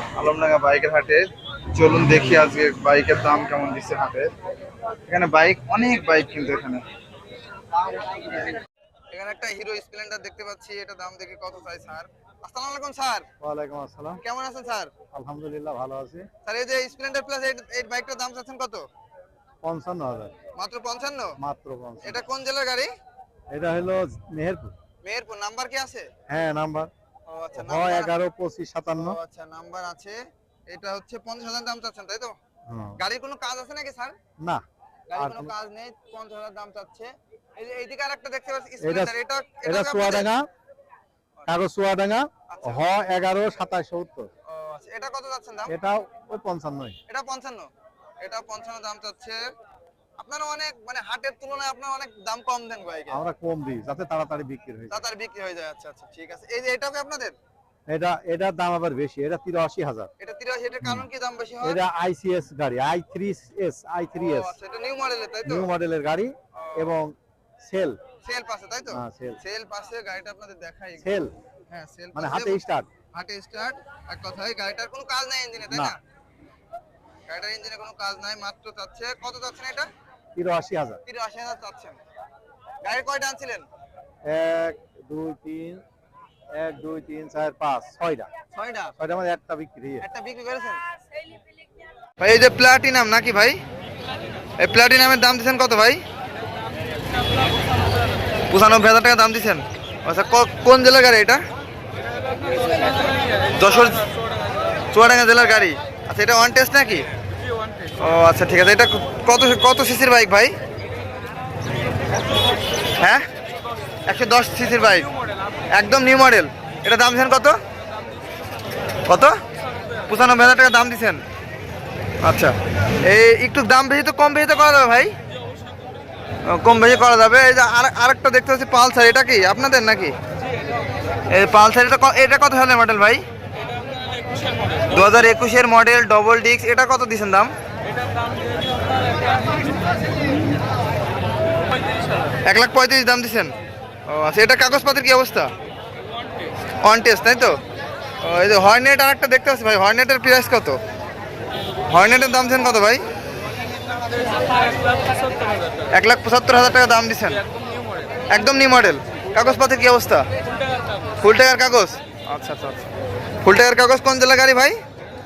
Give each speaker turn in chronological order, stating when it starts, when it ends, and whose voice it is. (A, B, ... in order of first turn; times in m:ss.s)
0:00.2-0:04.3 A
0:05.1-0:06.8 A
0:09.1-0:13.3 A
0:13.4-0:14.2 B
0:14.2-0:14.9 A
0:15.1-0:16.3 B
0:16.4-0:18.8 A
0:19.6-0:20.3 B
0:20.6-0:21.4 A
0:21.4-0:22.2 B
0:22.0-0:22.9 A
0:23.5-0:24.7 B
0:25.0-0:26.1 A
0:26.3-0:26.9 B
0:27.3-0:28.1 A
0:27.6-0:29.2 B
0:28.9-0:30.2 A
0:30.7-0:32.4 A
0:32.7-0:33.0 B
0:33.0-0:34.2 A
0:35.1-0:40.3 A
0:35.2-0:35.5 B
0:38.8-0:40.4 B
0:41.5-0:44.3 B
0:42.5-0:42.8 A
0:44.5-0:45.8 A
0:45.7-0:47.0 B
0:47.1-0:47.7 A
0:48.2-0:49.4 A
0:50.2-0:53.2 A
0:53.1-0:55.0 B
0:54.9-0:57.4 A
0:57.9-1:00.1 B
1:00.2-1:01.8 A
1:00.8-1:01.1 B
1:01.6-1:04.6 B
1:04.2-1:05.7 A
1:05.4-1:08.0 B
1:06.6-1:07.0 A
1:08.2-1:16.0 A
1:08.9-1:09.4 B
1:11.0-1:11.3 B
1:12.1-1:12.9 B
1:15.7-1:16.0 B
1:17.3-1:19.9 A
1:20.4-1:21.0 B
1:21.0-1:22.0 A
1:22.8-1:23.7 A
1:24.2-1:25.8 B
1:26.5-1:28.3 B
1:28.5-1:29.0 A
1:29.0-1:30.0 B
1:30.0-1:30.8 A
1:32.2-1:33.6 A
1:34.6-1:36.0 A
1:38.5-1:41.4 A
1:43.5-1:44.0 A
1:44.9-1:47.1 A
1:47.9-1:50.6 A
1:54.1-1:55.1 A
1:55.7-1:57.6 A
1:59.1-1:59.4 A
2:00.1-2:01.2 A
2:02.2-2:05.2 A
2:06.5-2:10.2 A
2:11.3-2:13.2 A
2:14.9-2:17.5 A
2:22.5-2:23.5 A
2:24.1-2:25.5 A
2:26.8-2:27.6 A
2:28.2-2:30.8 A
2:31.9-2:33.0 A
2:35.9-2:37.4 A
2:38.3-2:40.2 A
2:41.2-2:42.9 A
2:43.4-2:44.8 A